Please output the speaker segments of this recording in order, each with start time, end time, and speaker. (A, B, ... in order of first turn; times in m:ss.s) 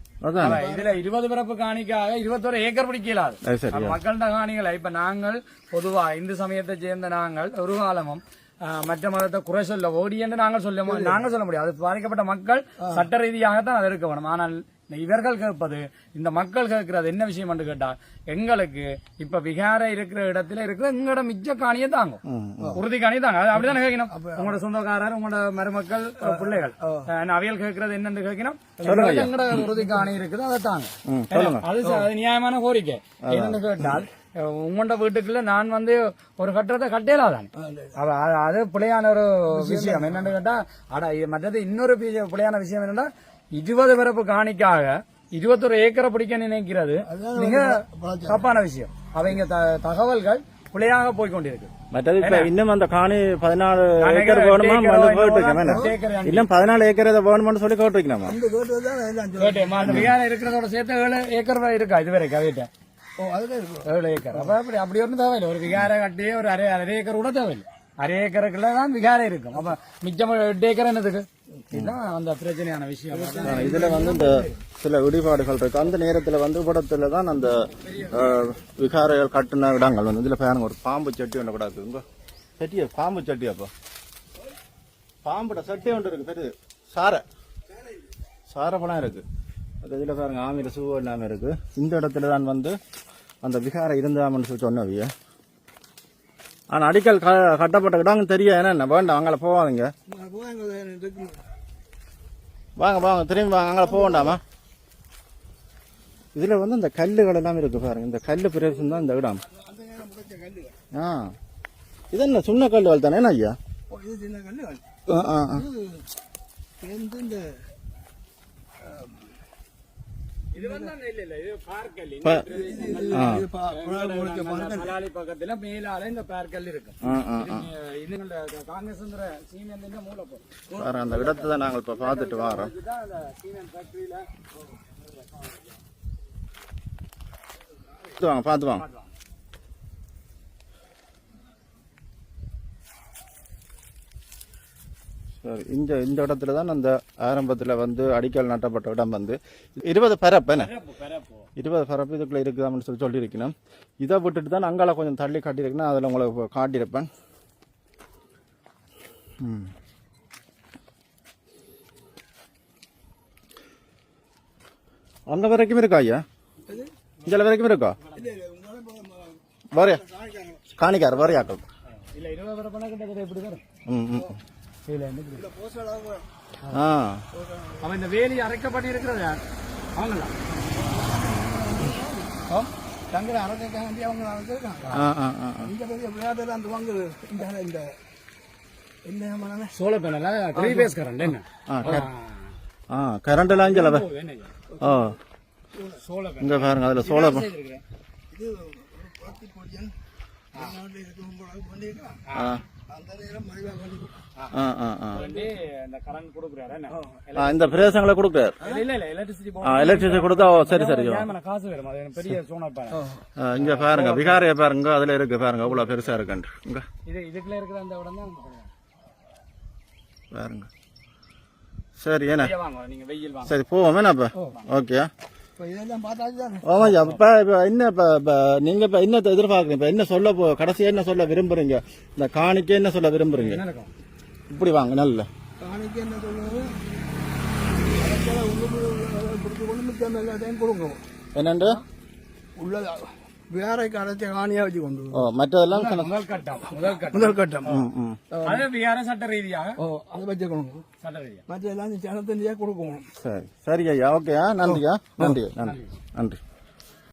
0:00.2-0:00.6 A
0:00.4-0:00.9 B
0:00.4-0:22.2 C
0:03.4-0:04.0 A
0:10.9-0:11.2 B
0:22.2-0:22.8 A
0:22.7-0:52.5 C
0:24.1-0:24.6 B
0:26.2-0:27.1 B
0:28.8-0:29.5 A
0:31.0-0:31.6 A
0:33.2-0:34.0 A
0:37.6-0:37.9 B
0:39.5-0:40.3 B
0:47.1-0:48.4 B
0:51.9-0:58.4 A
0:54.0-0:56.5 C
0:55.6-0:55.9 B
0:58.2-1:00.1 B
0:59.4-1:02.7 C
0:59.9-1:00.1 A
1:03.2-1:04.5 B
1:03.8-1:13.8 C
1:13.1-1:14.6 B
1:13.4-1:22.0 A
1:22.6-1:23.7 A
1:25.2-1:27.2 A
1:28.5-1:29.2 A
1:29.8-1:32.8 A
1:33.4-1:35.1 A
1:36.7-1:39.9 A
1:40.1-1:41.5 B
1:42.8-1:44.4 A
1:43.8-1:44.4 B
1:46.3-1:49.4 A
1:49.5-1:50.8 B
1:50.9-1:51.3 A
1:52.1-1:53.6 A
1:53.9-1:56.1 B
1:55.1-1:55.7 A
1:56.8-1:57.7 B
1:58.8-1:59.2 B
2:00.5-2:10.4 C
2:00.5-2:00.9 B
2:02.5-2:04.9 B
2:03.1-2:03.4 A
2:07.0-2:07.7 A
2:10.7-2:11.3 B
2:10.7-2:12.7 A
2:11.9-2:14.3 C
2:18.1-2:18.8 A
2:25.4-2:30.7 A
2:30.6-2:31.5 C
2:31.6-2:37.1 A
2:39.4-2:39.7 A
2:45.3-2:46.2 A
2:46.6-2:46.9 B
2:47.2-2:48.0 A
2:48.1-2:50.7 B
2:49.7-2:50.0 A
2:50.8-2:51.6 A
2:52.1-2:53.6 C
2:53.9-2:54.4 A
2:54.9-2:55.5 C
2:55.4-2:56.3 B
2:56.7-2:57.2 A
2:57.3-2:57.8 B
2:57.8-2:59.4 C
2:59.9-3:00.3 C
3:00.5-3:02.5 B
3:03.1-3:05.0 B
3:04.9-3:05.7 A
3:05.6-3:07.9 B
3:09.0-3:09.7 B
3:09.7-3:12.6 C
3:10.6-3:10.9 B
3:11.7-3:12.1 A
3:12.9-3:14.1 A
3:13.5-3:14.6 C
3:14.8-3:15.2 A
3:15.7-3:16.0 B
3:15.9-3:17.8 C
3:16.4-3:17.5 A
3:18.3-3:19.9 B
3:20.5-3:22.2 B
3:22.3-3:22.6 C
3:22.3-3:22.6 A
3:22.9-3:24.2 B
3:24.5-3:25.2 A
3:25.1-3:28.0 C
3:26.9-3:27.2 B
3:27.3-3:28.6 A
3:28.6-3:34.4 C
3:29.6-3:31.3 A
3:32.9-3:33.2 B
3:33.4-3:36.8 A
3:37.0-3:38.7 C
3:40.3-3:40.7 A
3:42.0-3:42.5 A
3:42.4-3:43.5 C
3:43.4-3:45.1 A
3:45.6-3:46.8 B
3:46.6-3:53.6 A
3:46.8-3:47.2 C
3:53.3-3:53.9 C
3:54.5-3:55.3 A
3:55.6-3:56.8 B
3:58.0-4:01.0 B
4:01.4-4:01.8 A
4:02.6-4:05.3 B
4:05.1-4:06.1 A
4:05.7-4:07.8 C
4:06.7-4:07.8 B
4:07.6-4:08.2 A
4:08.3-4:08.7 B
4:08.4-4:09.8 C
4:09.8-4:10.8 B
4:11.0-4:11.4 C
4:11.5-4:13.1 B
4:13.2-4:16.4 A
4:14.6-4:15.4 B